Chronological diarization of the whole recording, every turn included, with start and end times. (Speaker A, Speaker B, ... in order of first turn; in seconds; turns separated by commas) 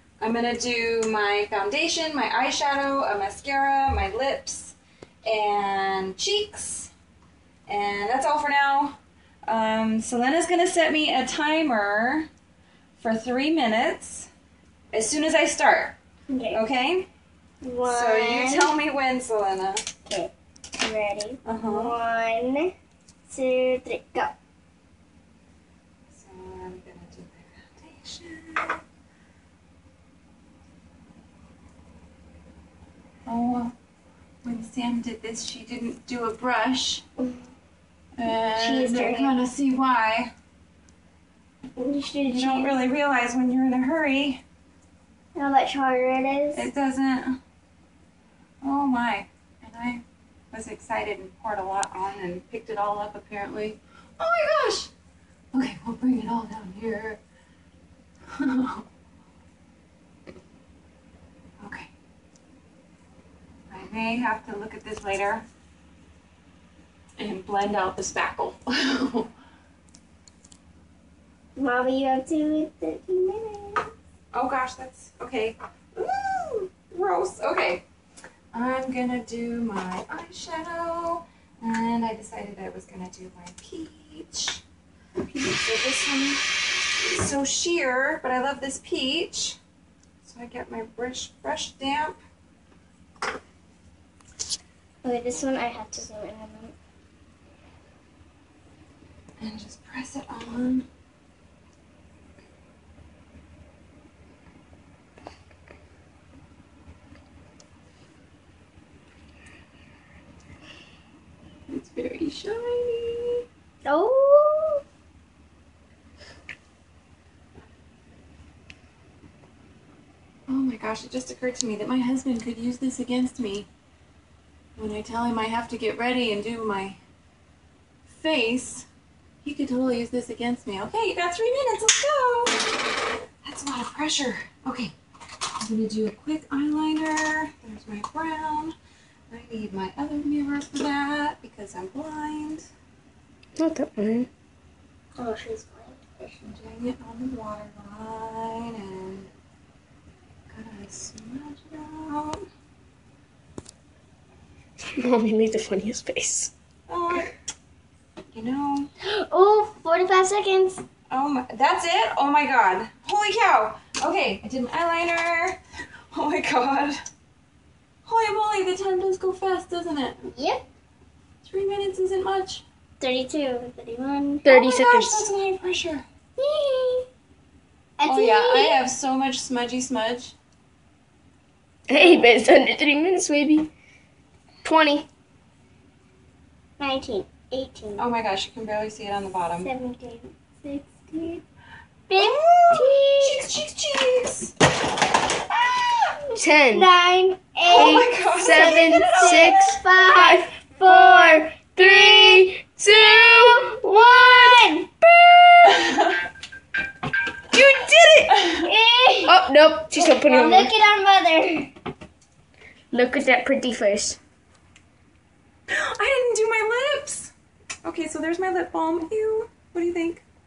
Speaker A: 0.2-6.9, Speaker A: 7.7-12.3, Speaker A: 13.0-14.3, Speaker A: 14.9-15.9, Speaker B: 16.3-16.6, Speaker A: 16.5-17.1, Speaker B: 17.6-18.7, Speaker A: 17.8-19.9, Speaker B: 20.1-22.7, Speaker A: 21.4-22.0, Speaker B: 23.3-24.3, Speaker A: 26.1-28.8, Speaker A: 33.2-33.7, Speaker A: 34.4-37.0, Speaker A: 38.2-40.3, Speaker B: 38.5-39.3, Speaker B: 41.8-42.7, Speaker A: 42.3-44.4, Speaker B: 45.3-46.7, Speaker A: 46.5-47.4, Speaker A: 48.6-54.9, Speaker A: 55.5-57.2, Speaker A: 58.3-58.9, Speaker A: 61.6-61.9, Speaker A: 63.7-65.5, Speaker A: 67.2-69.3, Speaker B: 71.5-73.9, Speaker A: 74.3-77.8, Speaker A: 78.5-84.6, Speaker A: 85.2-89.6, Speaker A: 90.2-92.2, Speaker B: 95.0-96.7, Speaker A: 99.4-100.9, Speaker A: 111.7-113.4, Speaker B: 113.8-114.8, Speaker A: 120.5-123.7, Speaker A: 124.8-127.0, Speaker A: 128.0-128.9, Speaker A: 129.4-132.8, Speaker A: 133.4-134.9, Speaker A: 135.6-138.7, Speaker A: 139.3-142.7, Speaker C: 143.6-144.3, Speaker B: 145.2-146.5, Speaker A: 146.4-149.3, Speaker A: 150.5-152.4, Speaker C: 154.9-156.5, Speaker A: 156.9-157.3, Speaker A: 158.3-158.9, Speaker B: 159.2-160.8, Speaker A: 161.1-165.6, Speaker A: 166.1-167.0, Speaker A: 168.0-170.2, Speaker B: 170.2-170.6, Speaker A: 171.4-172.6, Speaker B: 173.0-174.4, Speaker C: 174.4-175.2, Speaker A: 174.5-176.0, Speaker B: 176.4-177.1, Speaker B: 178.0-178.8, Speaker A: 178.1-180.3, Speaker C: 181.9-183.7, Speaker C: 184.6-185.1, Speaker B: 186.8-188.0, Speaker A: 188.0-189.7, Speaker B: 189.6-191.4, Speaker B: 192.1-193.4, Speaker A: 192.2-194.5, Speaker A: 195.5-196.2, Speaker C: 196.3-196.9, Speaker B: 196.6-204.9, Speaker A: 197.7-199.7, Speaker C: 197.7-205.5, Speaker A: 205.7-206.2, Speaker C: 207.5-208.3, Speaker A: 208.2-208.7, Speaker B: 208.6-209.4, Speaker C: 209.3-210.7, Speaker B: 209.9-211.7, Speaker A: 210.2-210.6, Speaker C: 212.9-214.2, Speaker A: 215.7-217.3, Speaker A: 217.8-220.2